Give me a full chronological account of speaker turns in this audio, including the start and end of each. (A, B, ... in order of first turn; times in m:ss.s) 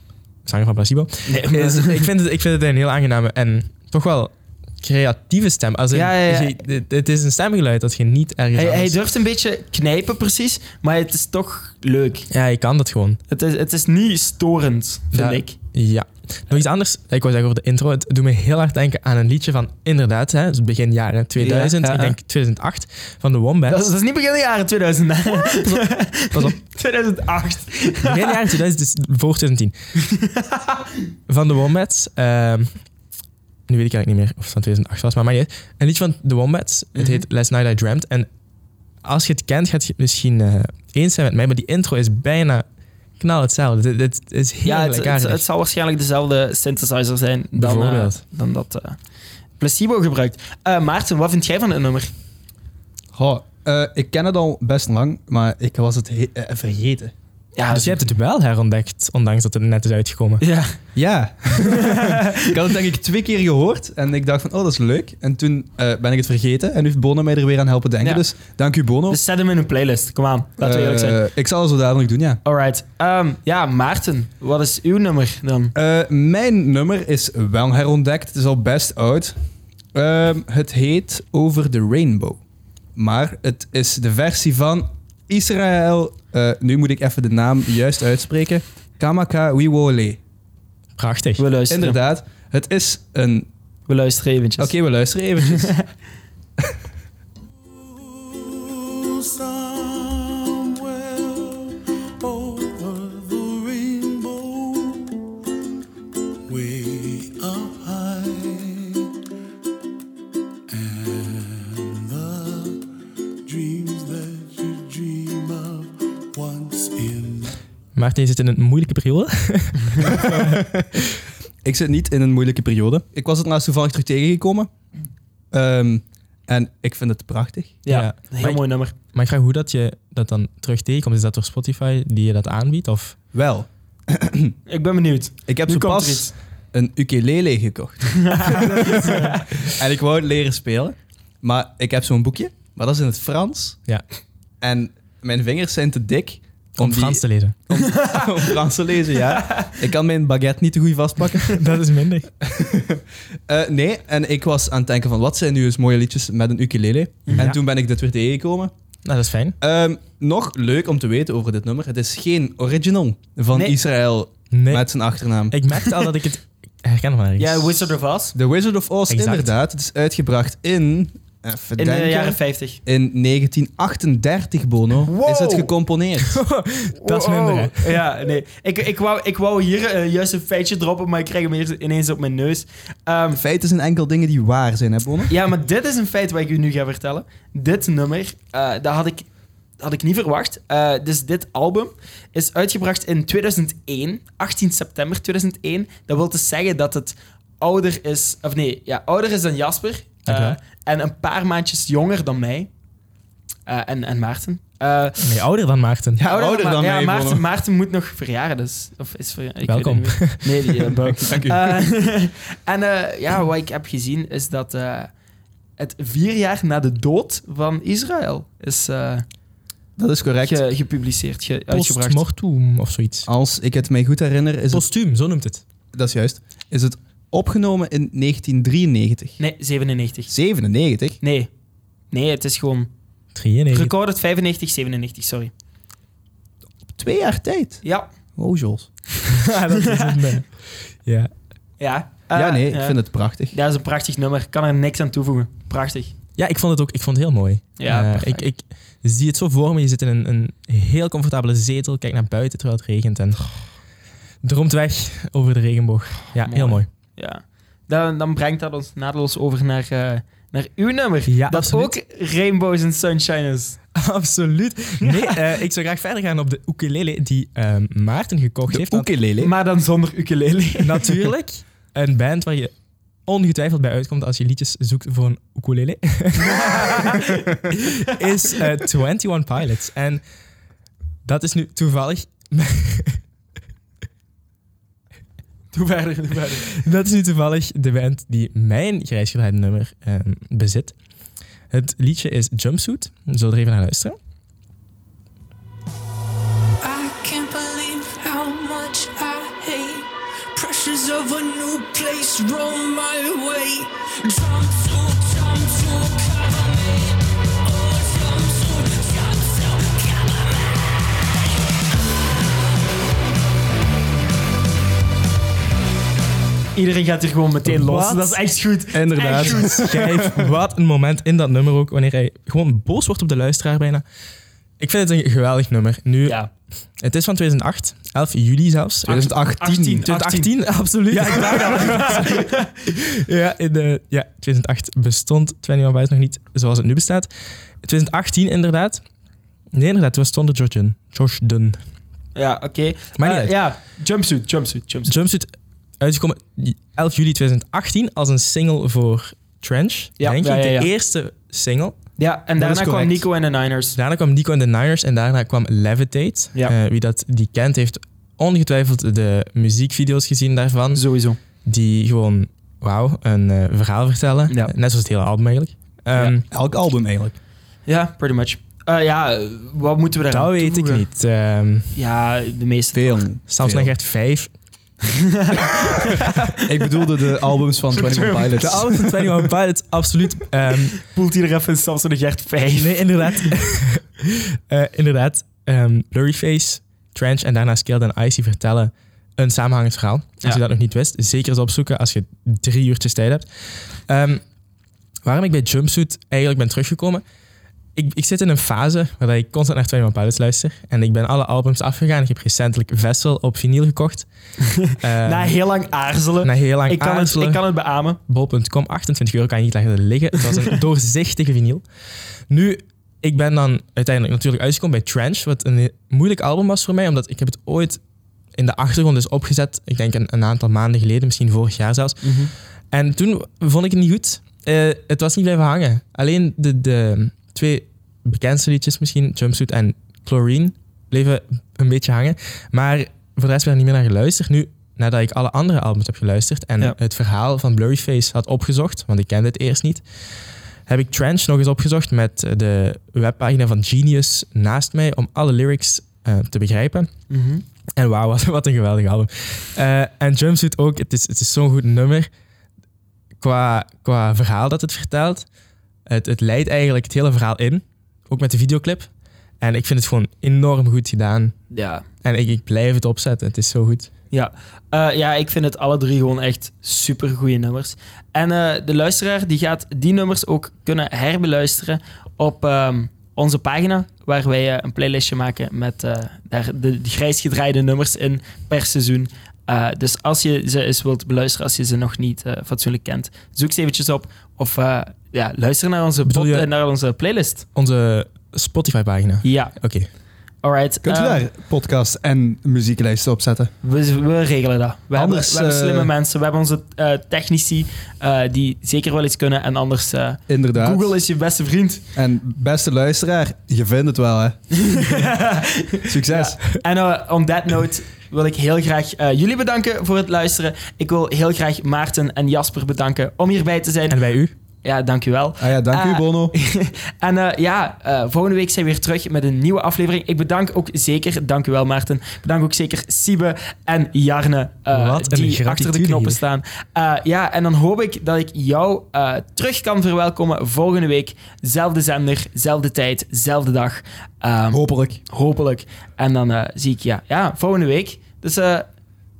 0:00.4-0:08.9 A
0:01.2-0:02.1 B
0:05.9-0:06.5 B
0:08.5-0:12.3 B
0:12.3-0:13.2 A
0:13.3-0:15.5 B
0:15.1-0:23.9 A
0:21.4-0:22.1 B
0:23.7-0:28.4 B
0:25.4-0:25.8 A
0:28.0-0:29.7 A
0:30.0-0:30.9 B
0:31.3-0:32.7 A
0:33.7-0:38.3 A
0:37.0-0:37.2 B
0:39.0-0:42.6 A
0:43.2-0:45.4 A
0:44.6-0:49.0 B
0:47.5-0:48.2 A
0:49.6-0:52.1 B
0:53.1-0:57.1 C
0:57.6-0:58.1 B
0:57.7-1:00.4 A
1:00.4-1:00.8 B
1:01.0-1:09.2 C
1:01.6-1:02.5 B
1:09.1-1:11.2 B
1:10.6-1:12.4 C
1:12.4-1:15.7 B
1:15.7-1:19.3 C
1:19.9-1:22.4 C
1:23.0-1:30.2 C
1:31.0-1:31.4 A
1:31.4-1:32.0 B
1:31.7-1:33.5 C
1:33.9-1:34.7 B
1:34.6-1:35.8 C
1:35.4-1:35.8 B
1:37.7-1:45.3 D
1:46.5-1:49.2 D
1:50.7-1:52.9 D
1:53.4-1:57.6 D
1:58.0-2:01.1 A
1:59.8-2:00.2 B
2:00.1-2:00.7 C
2:01.6-2:04.7 C
2:05.5-2:07.8 C
2:07.8-2:08.9 B
2:07.9-2:13.2 A
2:13.3-2:14.6 C
2:14.7-2:16.3 B
2:15.5-2:23.8 C
2:18.2-2:19.4 B
2:24.6-2:31.6 C
2:26.8-2:27.6 A
2:27.8-2:28.5 B
2:29.2-2:29.8 B
2:31.4-2:32.3 A
2:32.4-2:38.7 C
2:39.0-2:39.6 A
2:39.6-2:45.5 C
2:44.5-2:44.9 A
2:45.5-2:47.9 A
2:47.4-2:48.3 B
2:48.3-2:56.4 C
2:49.1-2:49.5 A
2:51.8-2:52.8 B
2:55.0-2:55.7 B
2:56.2-2:58.0 A
2:57.0-3:03.4 B
3:03.4-3:05.3 C
3:05.3-3:09.3 B
3:09.8-3:22.7 B
3:20.2-3:20.6 A
3:23.6-3:25.4 B
3:25.2-3:26.2 A
3:26.2-3:27.4 C
3:26.2-3:35.1 B
3:29.6-3:31.1 A
3:31.2-3:31.8 C
3:35.8-3:39.2 B
3:40.0-3:40.6 C
3:40.4-3:42.2 B
3:41.7-3:43.3 A
3:43.3-3:44.8 C
3:44.7-3:45.6 A
3:45.9-3:49.4 C
3:49.4-3:50.3 B
3:50.3-3:51.2 C
3:51.2-3:51.5 B
3:52.1-3:52.9 B
3:53.3-3:53.9 A
3:53.7-3:55.5 B
3:56.9-3:57.8 C
3:57.8-3:58.1 B
3:58.4-3:58.9 C
3:59.2-4:00.2 B
3:59.3-4:01.3 A
4:01.8-4:03.0 B
4:02.3-4:03.5 C
4:03.5-4:06.1 B
4:06.4-4:13.5 A
4:07.8-4:08.4 B
4:14.4-4:16.9 A
4:16.4-4:23.8 B
4:21.3-4:21.9 A
4:23.9-4:29.1 A
4:25.0-4:25.4 B
4:28.7-4:29.5 C
4:29.4-4:31.2 B
4:30.8-4:32.7 A
4:33.3-4:40.2 A
4:36.4-4:38.6 B
4:41.2-4:43.2 A
4:45.7-4:46.7 B
4:46.7-4:50.9 A
4:51.7-4:54.2 A
4:56.8-5:12.8 E
5:16.7-5:20.0 B
5:17.7-5:18.4 A
5:18.9-5:20.5 C
5:19.4-5:24.0 A
5:24.8-5:26.4 A
5:27.0-5:29.3 A
5:29.1-5:30.0 C
5:29.1-5:30.5 B
5:30.0-5:37.3 A
5:31.1-5:32.7 B
5:37.8-5:39.0 A
5:39.7-5:41.8 A
5:42.4-5:45.2 B
5:43.2-5:43.5 A
5:45.1-5:52.0 A
5:50.2-5:50.9 B
5:52.2-5:54.0 B
5:52.6-5:53.2 C
5:54.0-6:01.0 A
6:00.9-6:01.4 B
6:01.6-6:06.4 A
6:06.5-6:07.4 C
6:07.9-6:11.0 B
6:10.3-6:12.0 A
6:12.0-6:13.2 B
6:12.9-6:13.9 C
6:13.5-6:14.5 A
6:15.0-6:17.1 B
6:16.6-6:19.3 C
6:17.9-6:18.8 B
6:18.6-6:21.0 A
6:21.0-6:23.5 B
6:22.7-6:33.5 A
6:34.1-6:34.4 A
6:35.2-6:37.2 A
6:38.0-6:44.3 A
6:44.6-6:48.2 B
6:44.9-6:45.6 A
6:46.4-6:47.6 A
6:48.3-6:51.8 A
6:52.5-6:58.0 A
6:58.6-7:02.3 A
7:02.2-7:02.5 B
7:02.9-7:20.0 A
7:20.9-7:27.1 A
7:27.3-7:27.6 B
7:28.0-7:32.3 A
7:33.4-7:35.4 A
7:36.1-7:39.1 A
7:39.6-7:41.6 A
7:41.7-7:42.0 B
7:42.2-7:44.1 A
7:44.3-8:07.6 B
8:06.3-8:06.7 A
8:07.7-8:10.1 A
8:09.4-8:09.8 B
8:10.6-8:11.4 B
8:11.0-8:13.7 C
8:13.8-8:22.0 B
8:15.1-8:16.1 C
8:20.5-8:21.2 C
8:22.1-8:24.6 C
8:24.7-8:34.2 B
8:26.1-8:26.6 C
8:34.1-8:34.5 A
8:34.8-8:58.9 B
8:35.6-8:36.5 C
8:44.9-8:46.4 A
8:54.7-8:55.2 C